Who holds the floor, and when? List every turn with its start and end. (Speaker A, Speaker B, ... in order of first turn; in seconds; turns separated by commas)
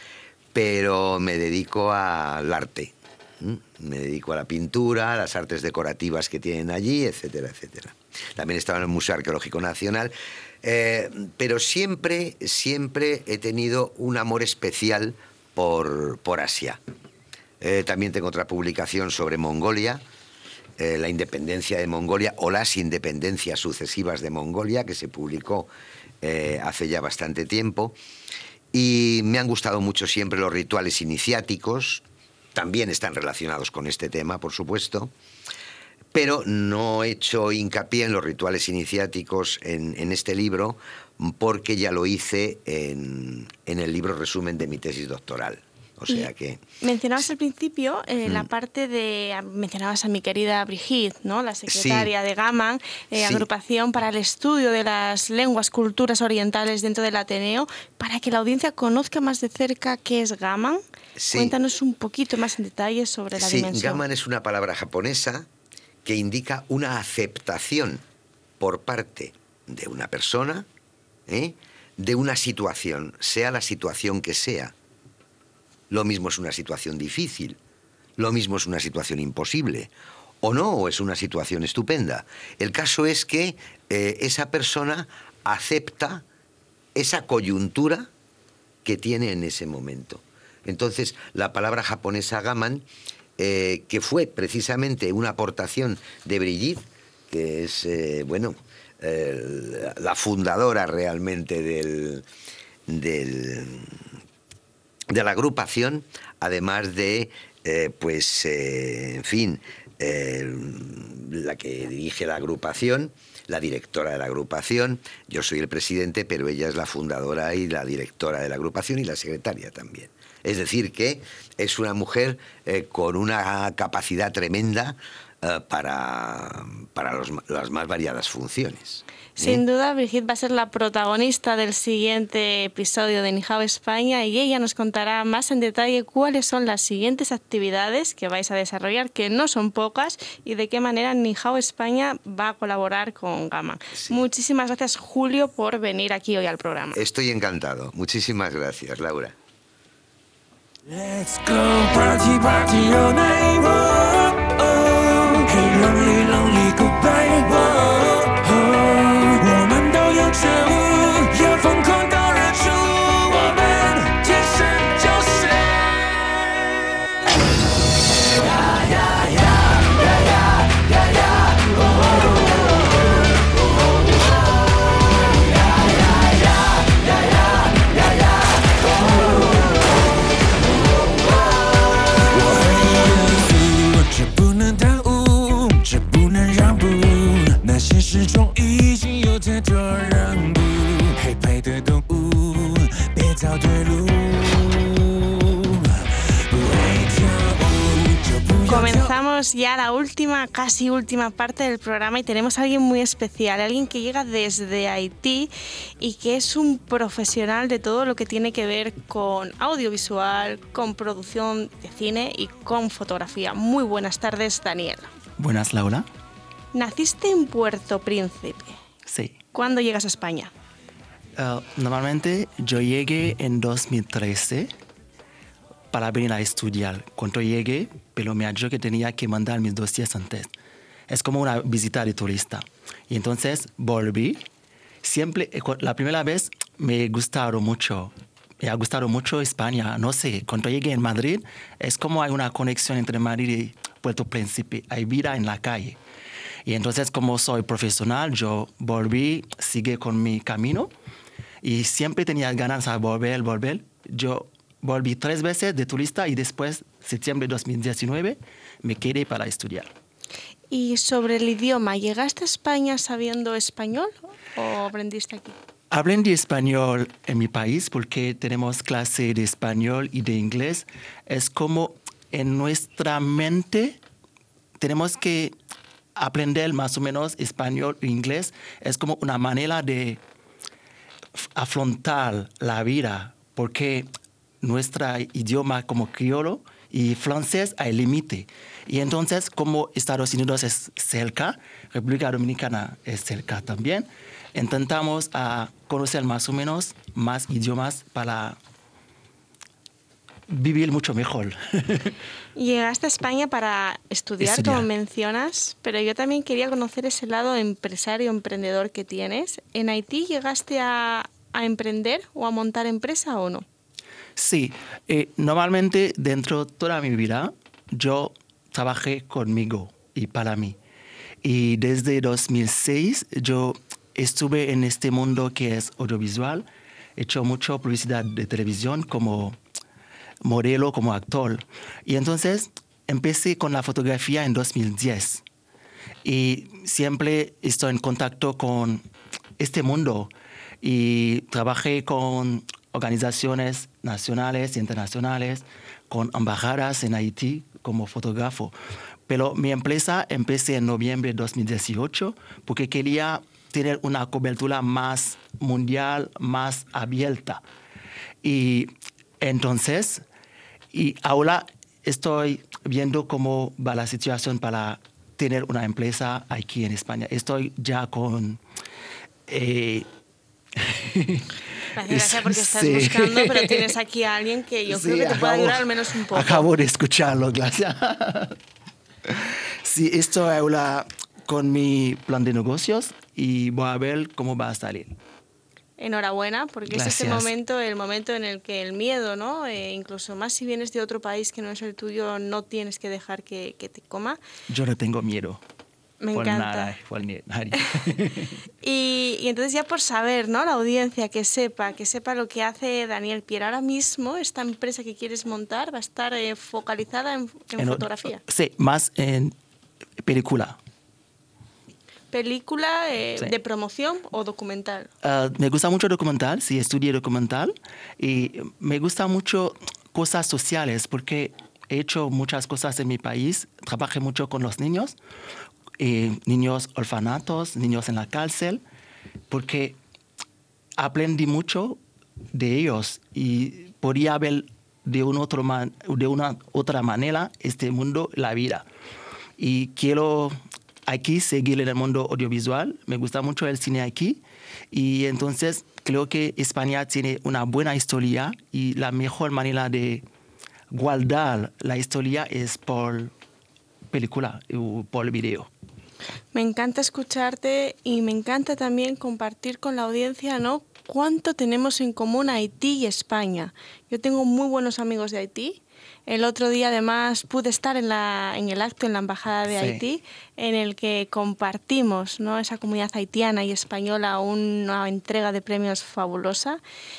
Speaker A: 0.5-16.8, Speaker A: 17.6-20.0, Speaker A: 20.8-25.7, Speaker A: 26.2-27.9, Speaker A: 28.7-32.0, Speaker A: 32.5-35.1, Speaker A: 36.1-46.6, Speaker B: 46.8-60.8, Speaker A: 51.7-52.1, Speaker A: 53.1-53.5, Speaker A: 61.2-61.5, Speaker B: 61.3-64.0, Speaker A: 63.4-65.5, Speaker A: 66.0-68.0, Speaker A: 68.6-70.7, Speaker A: 71.3-74.7, Speaker A: 75.9-77.6, Speaker A: 78.2-79.9, Speaker A: 80.4-86.2, Speaker A: 86.9-88.1, Speaker A: 88.8-92.8, Speaker A: 93.4-102.2, Speaker A: 102.9-104.0, Speaker A: 105.1-129.6, Speaker B: 129.4-147.0, Speaker A: 146.9-149.3, Speaker C: 150.9-165.7, Speaker C: 182.3-194.9, Speaker C: 196.5-199.0, Speaker B: 198.7-215.1, Speaker D: 215.4-216.1, Speaker B: 216.7-218.8, Speaker D: 219.1-219.4, Speaker B: 219.5-220.5, Speaker D: 221.3-224.7, Speaker D: 225.9-230.5, Speaker D: 231.1-234.4, Speaker D: 235.0-246.0, Speaker D: 246.7-250.9, Speaker D: 251.6-259.9, Speaker B: 260.7-265.5, Speaker D: 265.9-274.0, Speaker D: 274.8-275.5, Speaker D: 276.1-280.2, Speaker D: 281.3-284.1, Speaker D: 284.6-298.6, Speaker D: 300.5-302.1, Speaker B: 302.5-313.6, Speaker D: 304.4-304.9, Speaker D: 314.4-320.8, Speaker D: 321.4-326.6, Speaker D: 327.2-329.6, Speaker D: 330.4-335.4, Speaker D: 336.2-339.0, Speaker D: 339.6-348.7, Speaker D: 349.3-357.6, Speaker D: 358.4-360.2, Speaker D: 360.9-368.6, Speaker D: 369.5-370.1, Speaker D: 370.8-371.5, Speaker B: 371.9-376.7, Speaker D: 372.0-373.9, Speaker D: 374.9-378.6, Speaker D: 379.3-385.1, Speaker B: 386.0-394.4, Speaker D: 386.9-387.5, Speaker D: 394.7-395.6, Speaker B: 396.2-396.9, Speaker D: 396.3-398.5, Speaker B: 398.8-408.4, Speaker D: 407.8-409.5, Speaker D: 410.2-410.8, Speaker B: 412.3-415.1, Speaker D: 415.2-425.1, Speaker D: 426.0-428.8, Speaker D: 429.5-430.0, Speaker D: 431.0-432.0, Speaker D: 432.5-438.9, Speaker D: 439.6-450.2, Speaker D: 450.9-453.3, Speaker D: 454.1-455.7, Speaker B: 456.5-476.8, Speaker D: 469.7-470.0